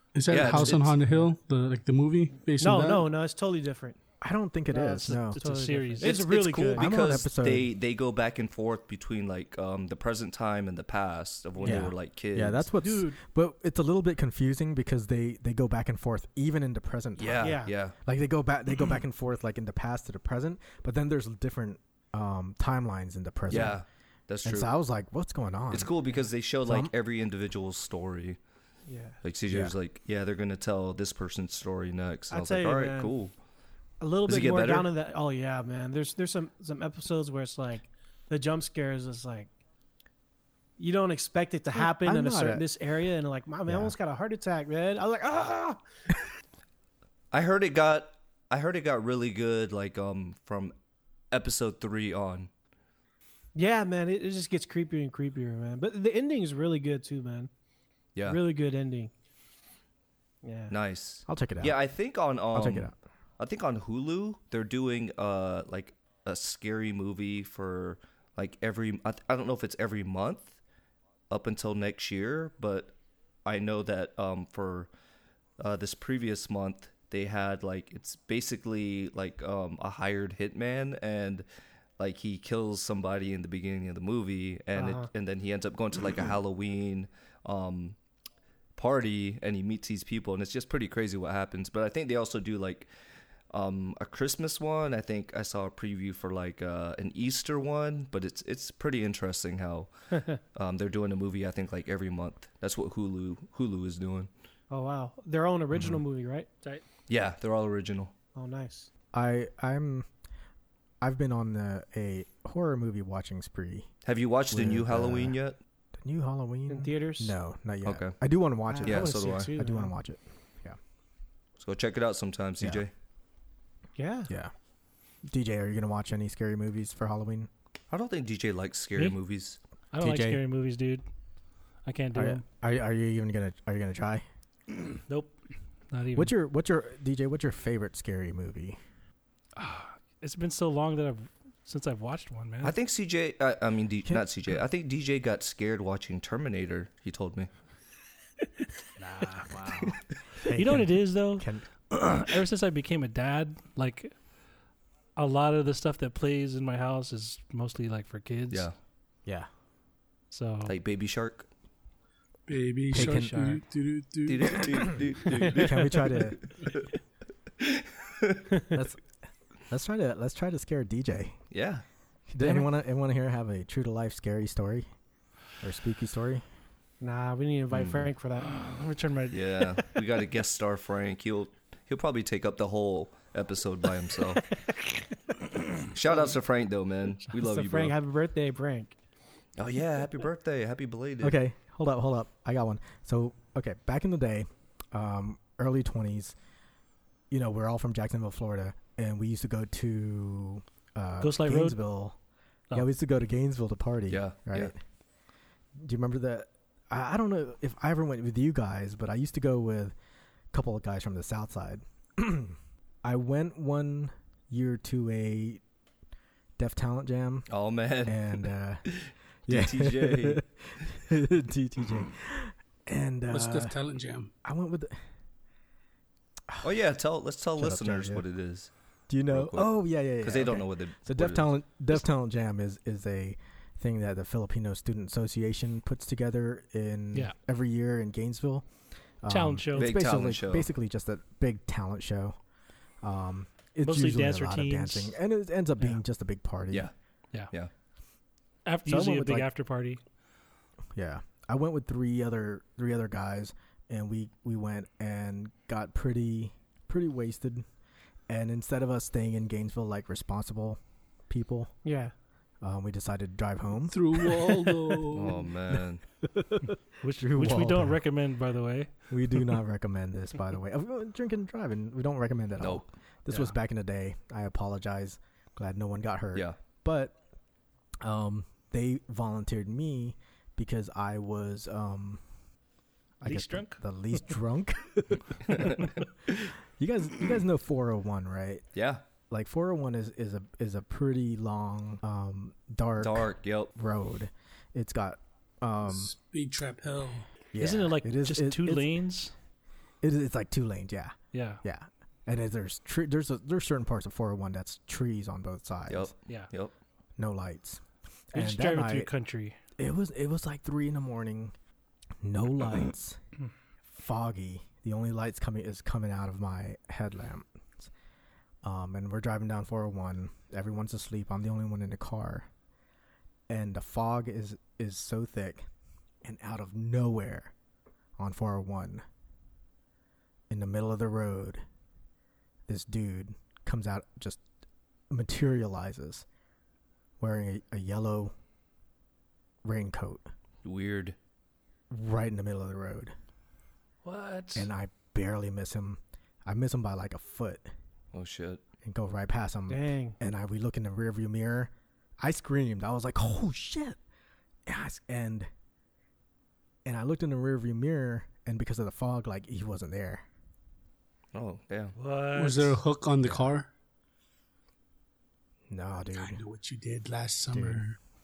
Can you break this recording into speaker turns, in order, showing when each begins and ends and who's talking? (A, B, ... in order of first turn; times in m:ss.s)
0:00.1-0:03.1 A
0:00.3-0:01.0 B
0:02.6-0:04.0 C
0:04.2-0:05.4 D
0:04.7-0:06.9 C
0:04.9-0:06.2 E
0:06.0-0:12.6 B
0:06.8-0:07.7 D
0:11.6-0:23.8 D
0:12.8-0:13.2 C
0:17.2-0:17.9 B
0:17.4-0:17.7 C
0:23.5-0:24.7 B
0:24.4-0:25.9 D
0:25.7-0:28.4 B
0:26.6-0:26.9 D
0:28.9-0:29.2 C
0:29.2-0:33.3 B
0:32.3-0:33.1 C
0:34.0-0:39.5 C
0:34.3-0:34.9 B
0:40.8-0:45.8 C
0:41.7-0:42.6 D
0:43.7-0:43.9 D
0:47.3-0:50.7 B
0:51.3-0:52.5 B
0:53.5-0:57.5 C
0:58.2-0:59.1 C
1:00.4-1:00.7 C
1:00.7-1:10.6 B
1:01.3-1:01.8 D
1:02.5-1:02.9 D
1:11.3-1:14.9 B
1:15.6-1:21.4 B
1:22.0-1:28.0 B
1:24.8-1:25.1 C
1:28.8-1:32.9 B
1:33.5-1:39.9 B
1:40.5-1:44.3 B
1:44.7-1:46.5 C
1:47.1-1:48.1 B
1:48.3-1:48.9 C
1:49.1-1:50.1 D
1:51.0-1:53.9 D
1:54.0-1:55.6 B
1:54.5-1:55.4 D
1:56.0-2:00.8 D
1:56.7-1:57.3 C
1:57.8-1:58.2 B
1:58.7-1:59.9 C
1:58.8-1:59.5 B
2:01.6-2:02.9 B
2:04.0-2:04.3 C
2:05.2-2:07.5 D
2:07.9-2:09.6 B
2:09.9-2:11.0 E
2:10.0-2:10.4 D
2:11.8-2:12.4 E
2:12.1-2:14.2 D
2:15.1-2:15.4 E
2:15.9-2:16.3 E
2:16.1-2:18.8 D
2:19.6-2:22.7 E
2:22.6-2:27.5 B
2:29.0-2:29.9 E
2:29.5-2:31.6 D
2:30.5-2:34.1 E
2:35.2-2:38.7 E
2:40.3-2:40.7 E
2:40.6-2:41.5 B
2:42.5-2:45.0 A
2:42.9-2:43.4 D
2:42.9-2:43.6 E
2:44.2-2:46.9 B
2:45.4-2:46.4 D
2:47.6-2:48.4 B
2:48.7-2:49.0 D
2:49.7-2:51.4 D
2:51.5-2:51.8 B
2:52.3-2:54.9 D
2:55.6-2:56.4 D
2:57.0-2:58.6 C
2:57.7-2:58.1 B
2:58.4-2:59.8 E
2:59.3-3:04.4 B
3:04.6-3:04.9 C
3:05.8-3:07.9 B
3:07.3-3:08.9 C
3:09.6-3:11.4 B
3:11.2-3:16.3 D
3:17.3-3:22.2 D
3:21.2-3:21.8 E
3:22.7-3:24.8 D
3:24.1-3:24.7 B
3:25.8-3:29.9 D
3:30.5-3:35.6 D
3:36.6-3:37.5 D
3:37.5-3:40.4 B
3:38.0-3:38.8 D
3:39.5-3:43.8 D
3:43.3-3:44.3 A
3:44.4-3:44.9 D
3:46.6-3:48.7 B
3:47.6-3:48.2 D
3:49.1-3:58.6 D
3:49.3-3:51.5 B
3:59.2-4:02.4 D
3:59.3-4:00.0 E
3:59.7-4:00.7 B
4:03.0-4:06.9 D
4:03.8-4:05.1 E
4:08.6-4:10.0 E
4:08.8-4:09.5 D
4:10.9-4:17.6 D
4:18.3-4:21.7 D
4:21.8-4:22.1 C
4:22.6-4:25.0 D
4:23.9-4:25.5 A
4:25.1-4:26.0 B
4:26.2-4:28.0 D
4:27.0-4:28.9 E
4:29.1-4:37.2 D
4:32.6-4:32.8 B
4:38.0-4:42.2 D
4:43.2-4:48.6 D
4:43.2-4:43.8 E
4:45.4-4:46.0 B
4:48.7-4:49.0 B
4:49.3-4:56.1 D
4:53.0-4:53.7 B
4:55.9-4:57.3 A
4:57.5-4:59.0 D
4:57.6-4:59.3 E
5:00.0-5:06.1 D
5:01.3-5:01.6 E
5:05.9-5:06.7 B
5:07.2-5:07.8 D
5:08.3-5:09.1 D
5:08.3-5:09.5 E
5:09.8-5:11.5 D
5:12.2-5:13.2 D
5:13.8-5:17.9 D
5:18.6-5:22.5 D
5:23.5-5:25.7 D
5:26.2-5:27.5 D
5:28.2-5:29.0 D
5:30.5-5:31.6 D
5:32.7-5:34.4 D
5:35.1-5:36.2 D
5:37.2-5:38.3 D
5:39.6-5:40.3 D
5:40.6-5:41.2 B
5:41.9-5:43.1 D
5:44.0-5:44.7 E
5:44.5-5:47.6 D
5:48.1-5:48.6 B
5:48.8-5:54.0 D
5:49.7-5:50.2 C
5:54.6-5:55.5 D
5:56.8-6:00.2 D
6:01.3-6:01.9 B
6:02.0-6:02.8 E
6:02.3-6:03.7 A
6:05.7-6:06.4 D
6:06.1-6:08.0 A
6:07.5-6:07.8 D